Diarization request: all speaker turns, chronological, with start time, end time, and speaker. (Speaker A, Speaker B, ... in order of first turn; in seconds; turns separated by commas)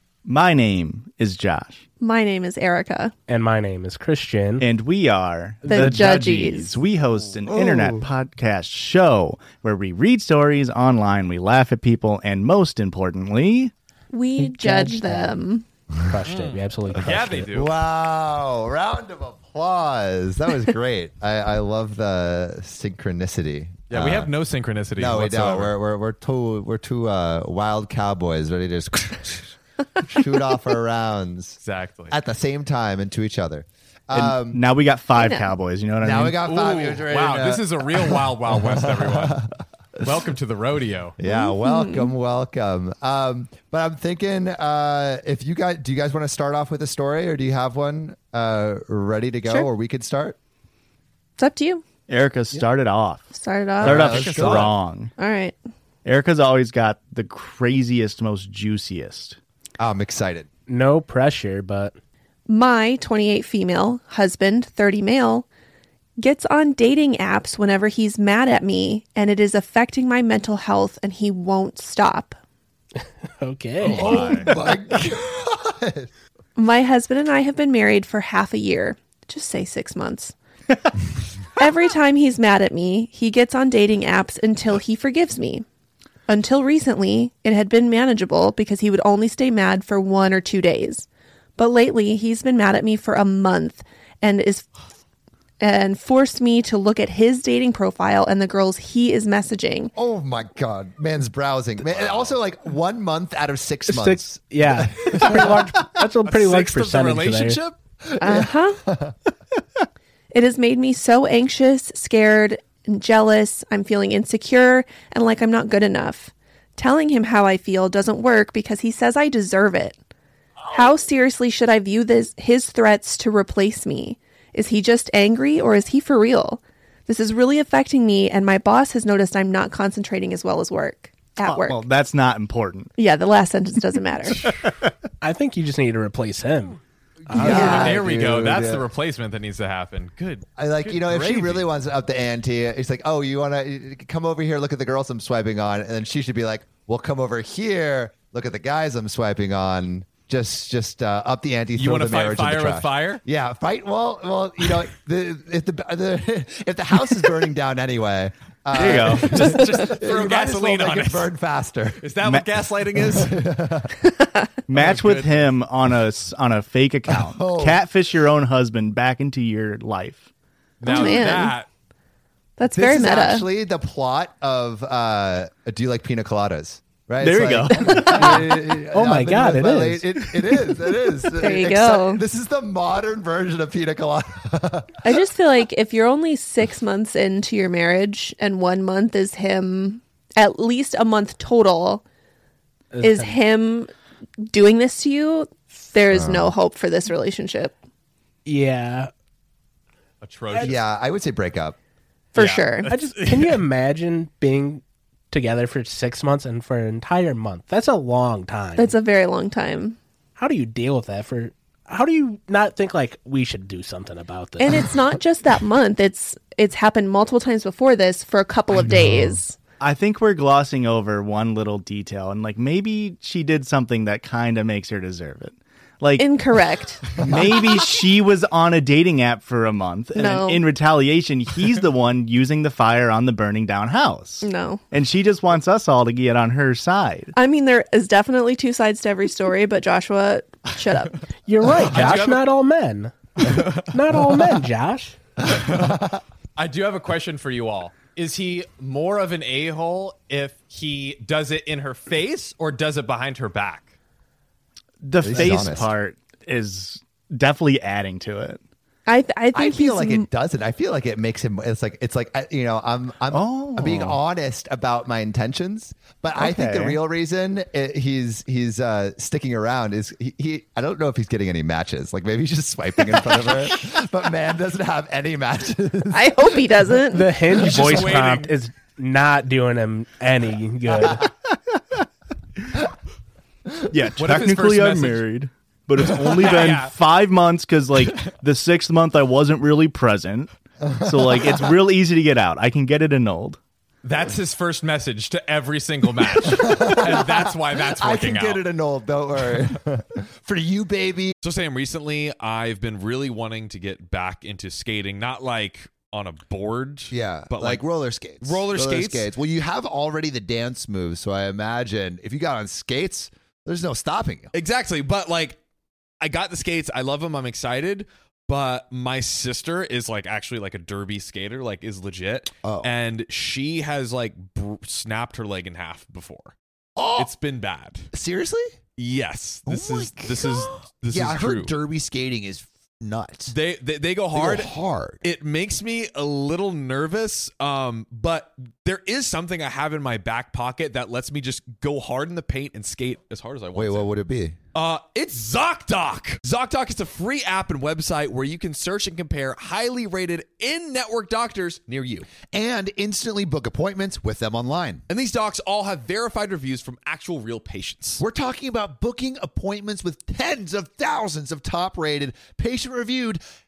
Speaker A: 0.2-1.8, Speaker B: 2.0-3.1, Speaker C: 3.3-4.7, Speaker A: 4.6-13.7, Speaker C: 5.6-6.3, Speaker B: 5.7-6.8, Speaker D: 7.5-8.0, Speaker B: 14.1-15.7, Speaker C: 14.4-15.4, Speaker C: 16.1-17.5, Speaker E: 16.2-17.7, Speaker D: 17.5-24.3, Speaker E: 23.9-25.7, Speaker D: 25.0-31.6, Speaker E: 31.6-32.1, Speaker D: 32.1-34.6, Speaker A: 34.1-36.4, Speaker B: 35.2-35.5, Speaker D: 36.0-39.4, Speaker E: 36.4-39.4, Speaker E: 40.0-41.1, Speaker D: 41.2-50.4, Speaker B: 41.2-42.1, Speaker B: 51.4-51.8, Speaker A: 52.1-55.1, Speaker B: 53.3-54.5, Speaker D: 53.8-54.7, Speaker B: 55.2-55.6, Speaker A: 56.0-59.4, Speaker D: 59.8-60.5, Speaker C: 60.7-62.0, Speaker B: 62.5-65.5, Speaker B: 66.2-72.4, Speaker C: 73.4-74.4, Speaker E: 73.8-74.5, Speaker D: 73.9-76.1, Speaker B: 76.5-80.3, Speaker B: 81.6-85.6, Speaker B: 86.3-94.7, Speaker B: 95.6-99.9, Speaker D: 100.0-105.6, Speaker E: 101.8-102.3, Speaker C: 103.9-107.6, Speaker E: 106.2-107.8, Speaker D: 108.0-109.2, Speaker B: 108.2-108.8, Speaker B: 110.3-120.0, Speaker B: 120.7-131.8, Speaker A: 131.4-132.9, Speaker B: 133.0-134.4, Speaker C: 135.2-138.0, Speaker D: 137.3-138.8, Speaker E: 137.3-141.7, Speaker B: 137.4-137.9, Speaker D: 140.6-162.0, Speaker E: 151.8-153.2, Speaker A: 158.7-159.3, Speaker E: 159.2-161.3, Speaker E: 162.0-163.3, Speaker D: 163.0-164.0, Speaker A: 164.7-170.2, Speaker E: 164.7-165.5, Speaker D: 167.1-167.8, Speaker E: 170.8-171.7, Speaker B: 170.8-171.5, Speaker B: 172.6-173.4, Speaker D: 172.7-185.0, Speaker A: 177.2-178.4, Speaker B: 177.8-178.3, Speaker C: 178.9-180.0, Speaker B: 181.4-182.2, Speaker B: 185.0-192.0, Speaker C: 192.9-193.4, Speaker B: 193.0-193.9, Speaker B: 194.4-197.7, Speaker D: 196.1-196.5, Speaker C: 198.4-199.1, Speaker E: 200.2-200.8, Speaker D: 200.6-201.8, Speaker B: 202.3-202.9, Speaker E: 202.3-203.6, Speaker C: 202.9-208.9, Speaker B: 208.8-210.0, Speaker C: 210.4-215.1, Speaker B: 214.6-219.6, Speaker A: 219.8-226.4, Speaker B: 226.2-227.2, Speaker A: 227.1-237.3, Speaker B: 230.1-230.6, Speaker B: 234.4-234.8, Speaker B: 237.3-241.3, Speaker C: 241.4-245.2, Speaker E: 241.8-242.4, Speaker E: 243.4-243.8, Speaker E: 245.6-245.8, Speaker D: 245.7-246.2, Speaker E: 246.6-253.9, Speaker A: 255.0-258.6, Speaker D: 255.2-255.9, Speaker B: 259.1-260.3, Speaker D: 259.5-276.4, Speaker A: 263.3-264.2, Speaker A: 266.4-267.0, Speaker B: 276.1-277.3, Speaker C: 277.0-281.3, Speaker E: 277.5-278.5, Speaker A: 283.9-293.6, Speaker E: 284.2-285.2, Speaker E: 286.4-286.9, Speaker D: 290.8-291.5, Speaker E: 294.0-298.6, Speaker D: 296.6-301.3, Speaker E: 301.4-307.8, Speaker D: 307.1-314.5, Speaker E: 308.4-309.3, Speaker E: 314.5-315.6, Speaker E: 316.2-326.5, Speaker D: 322.6-322.9, Speaker D: 327.0-327.3, Speaker E: 327.1-328.1, Speaker D: 328.1-328.7, Speaker E: 329.0-331.7, Speaker D: 329.7-333.5, Speaker E: 333.5-344.1, Speaker D: 334.3-335.2, Speaker D: 343.7-344.6, Speaker E: 344.7-352.3, Speaker D: 352.4-355.0, Speaker E: 355.1-358.2, Speaker D: 358.2-363.4